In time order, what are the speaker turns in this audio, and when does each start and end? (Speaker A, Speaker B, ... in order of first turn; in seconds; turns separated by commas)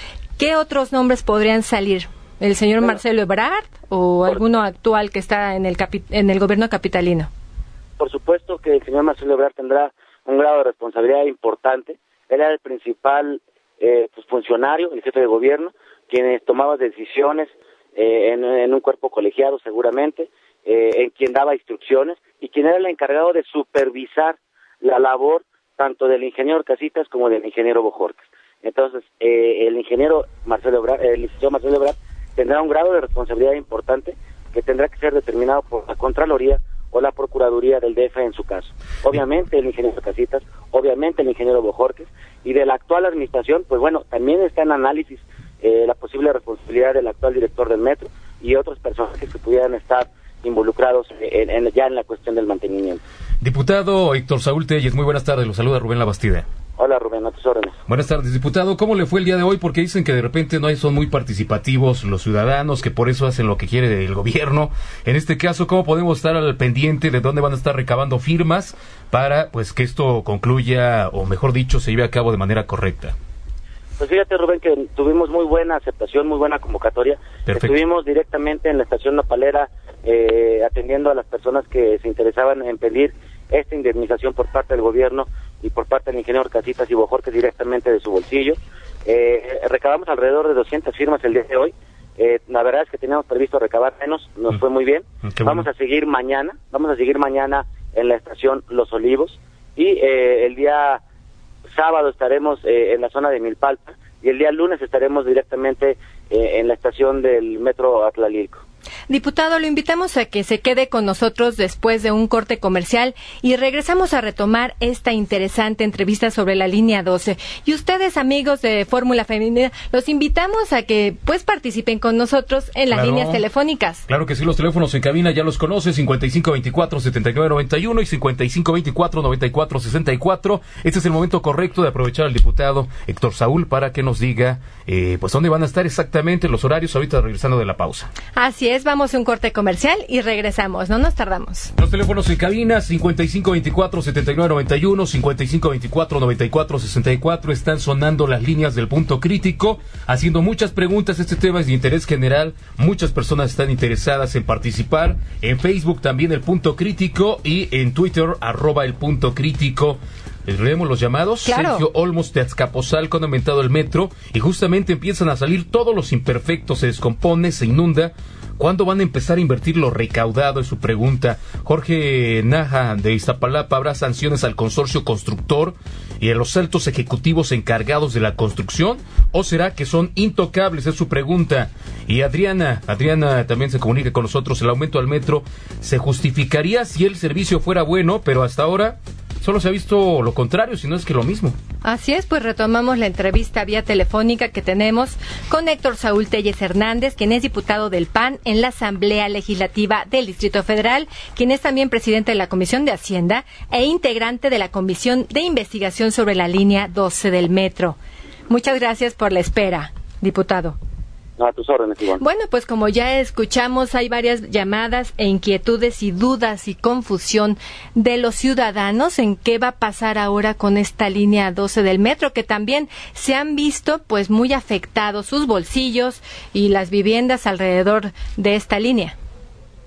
Speaker A: 0.4-7.3, Speaker B: 8.0-53.0, Speaker C: 53.4-56.5, Speaker B: 56.8-57.8, Speaker C: 57.9-73.1, Speaker B: 74.0-101.0, Speaker C: 77.5-77.7, Speaker C: 95.4-95.6, Speaker B: 101.7-108.6, Speaker A: 109.1-124.0, Speaker C: 122.9-123.4, Speaker C: 124.1-138.1, Speaker A: 138.3-141.7, Speaker C: 141.8-191.5, Speaker A: 161.4-161.8, Speaker A: 191.8-207.9, Speaker A: 208.5-210.8, Speaker B: 211.4-212.2, Speaker A: 212.2-229.2